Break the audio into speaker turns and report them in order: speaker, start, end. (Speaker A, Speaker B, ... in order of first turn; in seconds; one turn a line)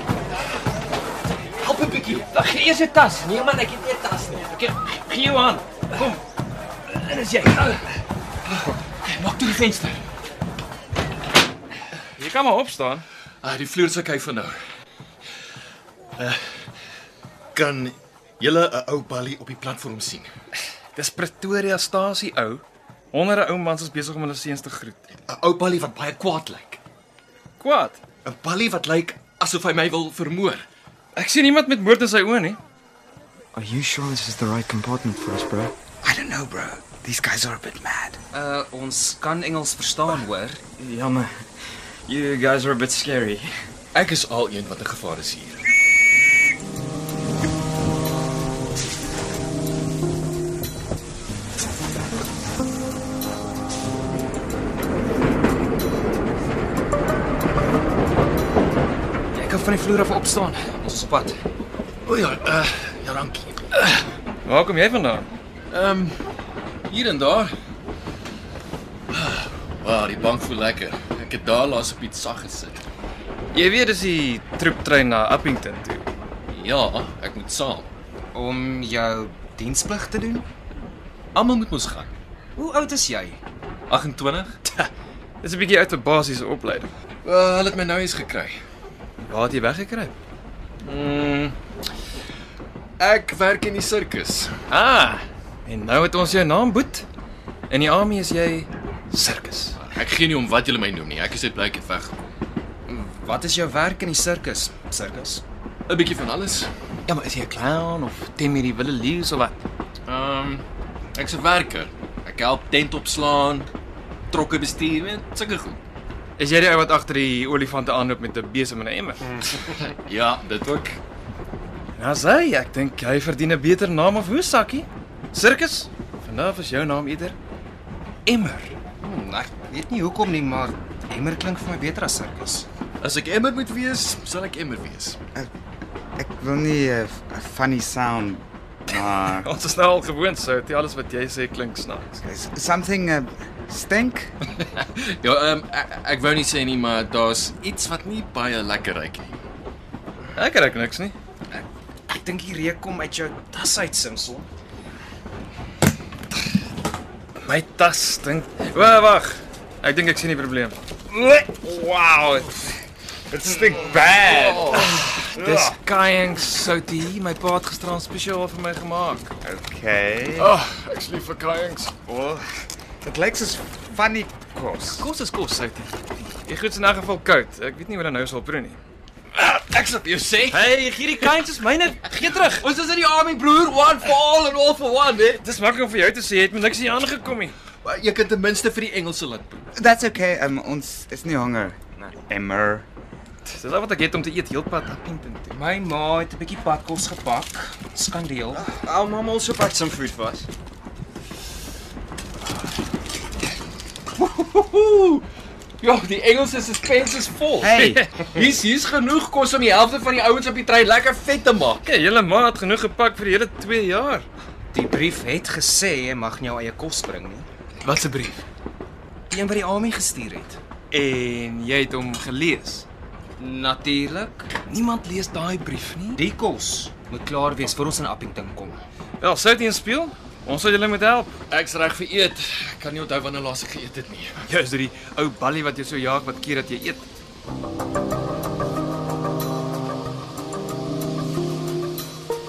Speaker A: 1.6-2.3
Speaker B: 2.3-3.3
Speaker A: 3.2-4.8
Speaker B: 4.8-6.2
Speaker B: 6.9-7.8
Speaker A: 9.0-10.0
Speaker B: 12.2-13.0
Speaker A: 13.4-14.6
Speaker A: 16.2-16.6
Speaker A: 17.5-20.3
Speaker B: 20.9-25.1
Speaker A: 25.2-26.8
Speaker B: 27.6-28.0
Speaker A: 28.2-30.6
Speaker B: 31.1-32.6
Speaker C: 33.5-35.7
Speaker D: 36.0-38.1
Speaker E: 38.3-40.6
Speaker C: 40.8-41.5
Speaker C: 42.1-43.5
Speaker A: 43.9-45.6
Speaker E: 59.3-61.4
Speaker A: 62.0-63.6
Speaker B: 64.5-65.3
Speaker A: 65.7-66.2
Speaker A: 66.9-67.5
Speaker A: 69.1-72.8
Speaker B: 73.5-76.0
Speaker A: 76.5-77.9
Speaker E: 78.3-80.5
Speaker A: 81.3-82.1
Speaker E: 82.6-83.4
Speaker A: 83.9-84.5
Speaker B: 85.4-86.9
Speaker A: 87.2-88.6
Speaker B: 89.2-90.1
Speaker B: 90.8-91.5
Speaker A: 93.0-94.5
Speaker B: 94.7-97.0
Speaker B: 97.7-99.8
Speaker A: 99.8-102.2
Speaker E: 102.9-105.4
Speaker A: 105.9-106.7
Speaker B: 107.1-109.6
Speaker A: 110.0-113.7
Speaker A: 114.3-115.8
Speaker B: 116.4-119.4
Speaker A: 119.7-121.0
Speaker B: 122.0-127.3
Speaker B: 128.2-128.7
Speaker E: 129.0-132.7
Speaker A: 133.0-135.2
Speaker D: 136.2-139.5
Speaker B: 139.3-142.2
Speaker D: 142.2-144.3
Speaker A: 144.9-149.4
Speaker B: 150.3-151.1
Speaker E: 151.5-154.5
Speaker B: 157.4-160.8
Speaker D: 161.1-162.7
Speaker D: 163.3-165.8
Speaker A: 164.0-165.0
Speaker B: 164.7-169.3
Speaker D: 169.4-170.5
Speaker B: 170.4-171.9
Speaker D: 172.1-172.4
Speaker D: 173.0-175.1
Speaker B: 175.0-178.8
Speaker A: 179.3-180.6
Speaker B: 180.5-182.7
Speaker A: 182.5-185.4
Speaker B: 185.4-187.5
Speaker A: 187.8-189.6
Speaker D: 189.8-192.8
Speaker B: 193.4-195.5
Speaker E: 195.5-198.7
Speaker C: 198.5-200.5
Speaker A: 204.2-205.2
Speaker A: 205.8-211.8
Speaker D: 207.7-208.0
Speaker B: 207.7-208.1
Speaker B: 211.8-214.3
Speaker E: 214.7-217.5
Speaker B: 217.8-218.4
Speaker E: 219.3-220.6
Speaker B: 220.9-222.8
Speaker E: 223.4-224.5
Speaker B: 224.7-226.2
Speaker E: 226.2-228.8
Speaker B: 229.2-231.3
Speaker A: 231.5-234.4
Speaker B: 234.4-237.1